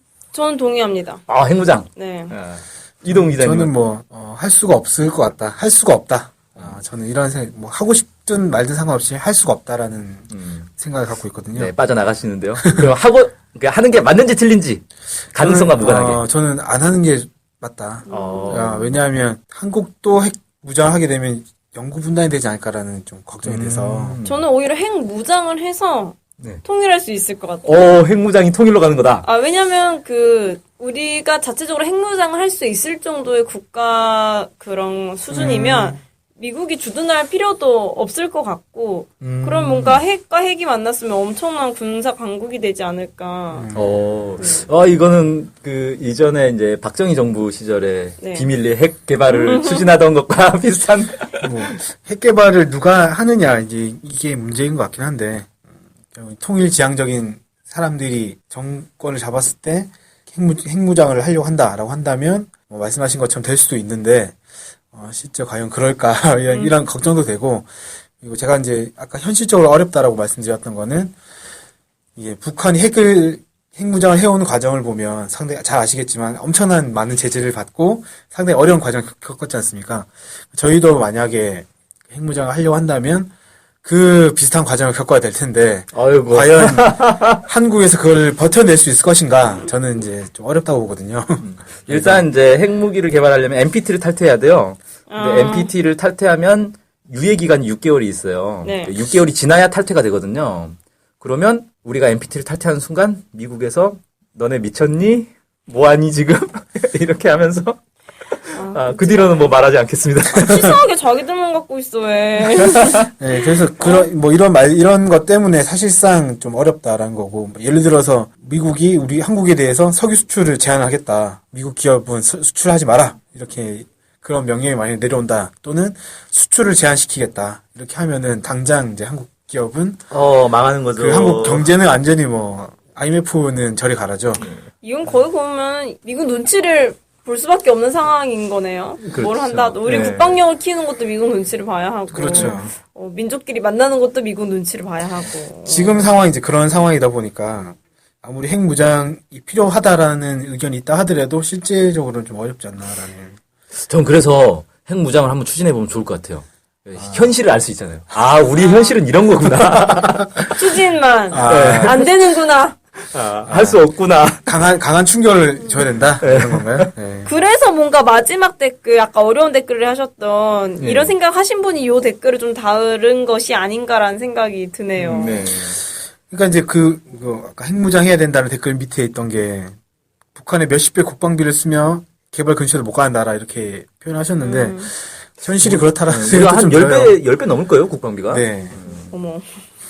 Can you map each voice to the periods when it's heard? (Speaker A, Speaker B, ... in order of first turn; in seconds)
Speaker A: 0.3-1.2, 1.9-2.3, 18.1-18.7, 24.2-27.8, 29.2-43.7, 44.4-44.7, 48.2-48.5, 49.3-49.8, 95.1-95.7, 98.6-98.9, 108.5-109.5, 110.3-113.1, 113.8-114.1, 134.8-146.1, 158.6-159.0, 160.5-162.8, 167.2-175.5, 184.4-184.9, 189.1-189.6
Speaker B: 1.3-3.7, 10.3-10.7, 11.5-16.2, 18.1-19.0, 23.4-24.4, 27.6-29.2, 43.7-51.5, 85.9-87.4, 91.4-107.8, 108.3-110.7, 130.1-131.7, 134.4-134.7, 139.0-140.4, 142.2-142.6, 153.8-160.5, 161.4-162.1, 163.1-164.5, 166.2-166.9, 170.8-171.1, 175.0-175.8, 185.5-189.1
Speaker C: 3.1-11.7, 15.3-24.2, 35.3-36.0, 39.2-40.0, 43.5-43.9, 51.4-64.4, 64.9-67.7, 68.2-71.1, 72.2-83.3, 83.8-92.3, 112.6-130.1, 130.9-134.4, 142.1-142.7, 145.6-153.4, 156.9-157.3, 161.3-162.0, 163.4-163.8, 164.4-167.3, 176.3-179.7, 180.3-187.2, 188.3-188.8